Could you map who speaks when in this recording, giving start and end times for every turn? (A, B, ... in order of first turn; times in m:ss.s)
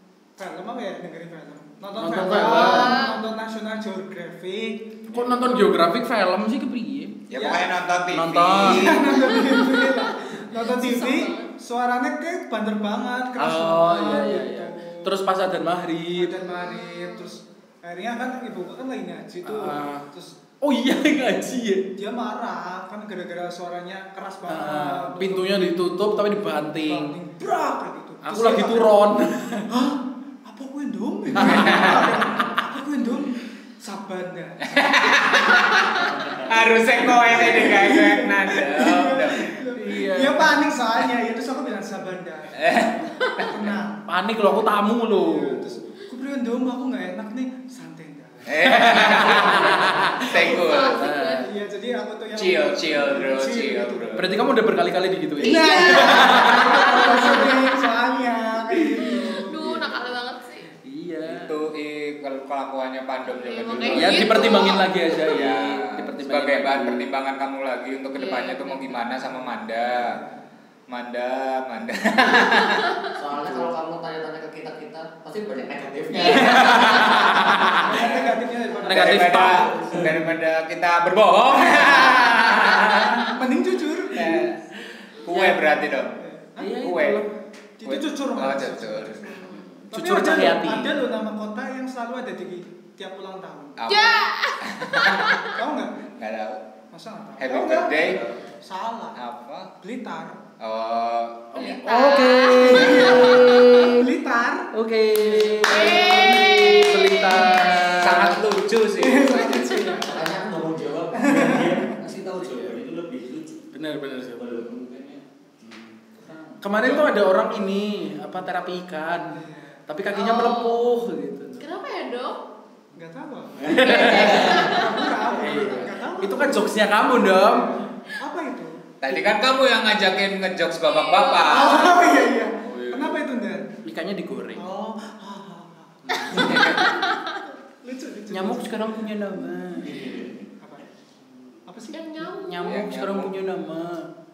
0:00.4-0:05.0 A
0:02.0-0:03.0 B
0:02.3-0:03.2 C
0:05.1-0:07.6 B
0:07.3-0:09.0 D
0:07.3-0:07.7 A
0:08.1-0:08.9 B
0:08.6-0:15.2 A
0:08.8-0:11.5 C
0:13.4-0:16.4 B
0:16.2-0:20.4 A
0:16.4-0:17.4 C
0:19.4-0:20.1 B
0:20.6-0:21.9 B
0:22.0-0:29.0 A
0:24.5-0:27.1 B
0:28.2-0:29.7 B
0:29.7-0:36.5 A
0:31.4-0:32.3 B
0:31.6-0:32.1 D
0:34.7-0:39.4 D
0:37.1-0:44.0 A
0:37.4-0:37.8 B
0:39.7-0:40.6 B
0:42.6-0:43.8 D
0:44.1-0:45.9 B
0:45.1-0:50.6 A
0:48.5-0:51.1 D
0:48.6-0:51.5 B
0:50.3-0:51.5 C
0:51.4-0:54.2 A
0:52.3-0:54.3 D
0:54.2-0:57.7 B
0:55.4-0:59.6 A
0:55.4-0:57.7 C
0:58.8-1:00.0 B
0:59.0-1:00.7 C
1:00.8-1:01.5 B
1:01.3-1:10.2 D
1:03.3-1:04.9 C
1:03.9-1:07.1 B
1:08.2-1:09.1 C
1:09.9-1:10.3 A
1:10.9-1:12.9 D
1:13.2-1:17.4 E
1:13.4-1:13.7 B
1:16.1-1:17.4 C
1:16.2-1:18.0 B
1:16.6-1:17.2 D
1:17.7-1:19.5 A
1:17.9-1:23.3 D
1:18.8-1:19.7 B
1:19.5-1:20.2 E
1:21.6-1:24.4 A
1:24.1-1:24.6 D
1:25.2-1:26.2 D
1:25.3-1:26.7 A
1:26.6-1:27.3 B
1:26.8-1:27.2 D
1:27.8-1:33.8 A
1:27.8-1:29.2 D
1:29.2-1:29.7 C
1:29.9-1:30.9 B
1:33.8-1:35.4 D
1:33.9-1:35.6 C
1:35.5-1:36.0 A
1:36.2-1:36.6 D
1:36.9-1:39.2 A
1:37.4-1:38.2 D
1:38.0-1:38.4 E
1:39.2-1:39.7 D
1:39.8-1:40.4 A
1:40.6-1:41.8 D
1:41.5-1:44.1 B
1:41.6-1:44.0 C
1:42.6-1:47.4 A
1:44.7-1:48.4 B
1:45.7-1:48.0 C
1:48.0-1:49.8 D
1:49.0-1:50.3 A
1:49.2-1:50.1 C
1:50.1-1:53.6 E
1:51.2-1:51.9 A
1:52.4-1:52.8 B
1:53.7-1:54.7 B
1:54.3-1:55.2 E
1:55.6-1:55.9 B
1:56.2-1:57.0 E
1:56.6-2:01.6 B
1:59.3-1:59.8 A
2:00.1-2:00.8 C
2:01.6-2:02.4 C
2:03.0-2:08.8 A
2:03.6-2:07.7 B
2:03.7-2:04.6 E
2:03.8-2:05.2 C
2:09.0-2:12.0 D
2:10.8-2:12.2 C
2:11.4-2:13.7 A
2:12.7-2:13.1 B
2:13.8-2:14.7 B
2:14.6-2:19.1 A
2:16.1-2:16.7 B
2:16.3-2:16.8 D
2:16.6-2:17.4 C
2:18.3-2:20.0 B
2:19.8-2:20.4 E
2:20.6-2:20.9 A
2:21.7-2:22.0 A
2:21.9-2:22.8 C
2:22.4-2:24.1 B
2:22.6-2:23.3 D